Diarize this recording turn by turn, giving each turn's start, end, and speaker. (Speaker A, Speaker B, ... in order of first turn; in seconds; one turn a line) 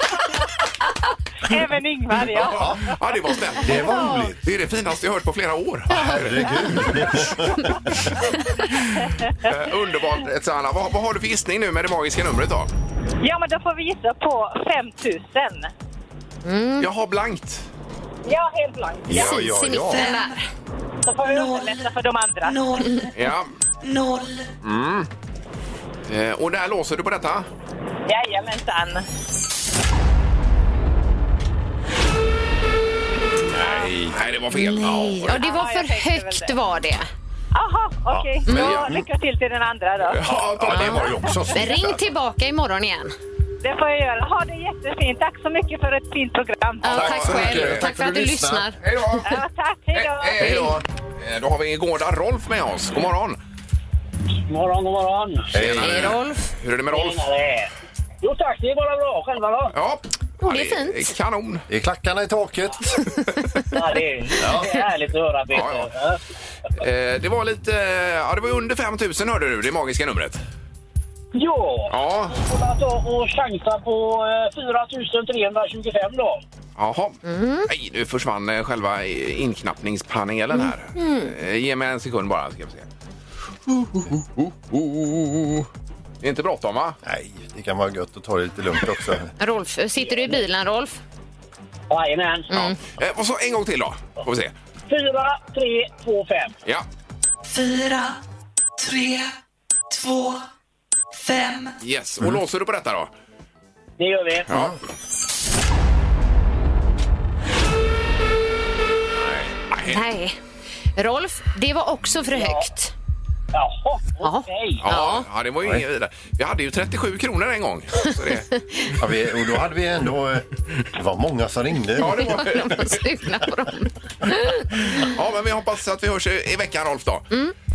Speaker A: 1.4-2.8
Speaker B: 2.4-3.9
Speaker C: 2.4-2.8
Speaker C: 3.6-4.4
Speaker D: 3.8-4.3
Speaker B: 4.4-7.3
Speaker C: 5.9-7.7
Speaker D: 5.9-6.9
Speaker B: 9.4-12.7
Speaker A: 13.2-15.7
Speaker D: 16.4-16.9
Speaker B: 16.8-17.6
Speaker A: 18.2-19.4
Speaker C: 19.1-20.1
Speaker D: 19.1-20.4
Speaker E: 19.9-20.3
Speaker A: 21.0-23.0
Speaker E: 21.2-23.1
Speaker B: 23.1-23.5
Speaker E: 23.8-24.5
Speaker B: 24.6-25.1
Speaker B: 26.1-27.5
Speaker A: 28.1-29.0
Speaker B: 33.5-35.4
Speaker A: 33.6-33.9
Speaker D: 34.5-37.1
Speaker A: 35.2-36.5
Speaker A: 37.5-40.2
Speaker C: 38.1-39.0
Speaker D: 38.5-38.8
Speaker B: 38.5-38.8
Speaker B: 40.1-41.3
Speaker C: 40.2-42.0
Speaker D: 40.7-43.1
Speaker A: 43.6-47.1
Speaker D: 46.8-48.8
Speaker C: 46.9-48.7
Speaker B: 46.9-47.9
Speaker B: 48.8-49.3
Speaker A: 49.2-50.7
Speaker B: 49.9-53.4
Speaker C: 50.4-50.8
Speaker F: 54.5-55.6
Speaker C: 55.5-56.1
Speaker B: 55.5-57.2
Speaker D: 55.8-56.4
Speaker F: 56.9-57.7
Speaker F: 58.2-59.7
Speaker B: 59.7-61.6
Speaker D: 60.4-61.1
Speaker C: 61.7-62.9
Speaker F: 63.7-66.2
Speaker C: 64.4-64.7
Speaker B: 65.5-65.9
Speaker B: 66.8-70.4
Speaker F: 71.3-76.4
Speaker B: 71.9-72.4
Speaker B: 76.8-82.8
Speaker D: 77.2-77.7
Speaker D: 81.0-81.3
Speaker B: 83.7-85.7
Speaker B: 86.2-87.0
Speaker C: 87.0-89.3
Speaker D: 89.4-91.0
Speaker F: 91.9-92.5
Speaker D: 92.5-92.8
Speaker B: 92.5-94.5
Speaker F: 94.9-96.5
Speaker E: 97.4-98.2
Speaker E: 98.8-99.3
Speaker E: 99.9-100.4
Speaker E: 101.1-101.7
Speaker B: 101.8-103.1
Speaker F: 104.0-104.7
Speaker B: 104.5-104.7
Speaker B: 109.7-110.0
Speaker D: 109.8-110.4
Speaker D: 111.0-112.9
Speaker F: 112.3-112.7
Speaker F: 113.5-114.8
Speaker D: 114.2-115.2
Speaker B: 114.8-118.5
Speaker C: 119.0-122.4
Speaker B: 122.0-123.0
Speaker D: 122.0-125.0
Speaker B: 124.9-127.3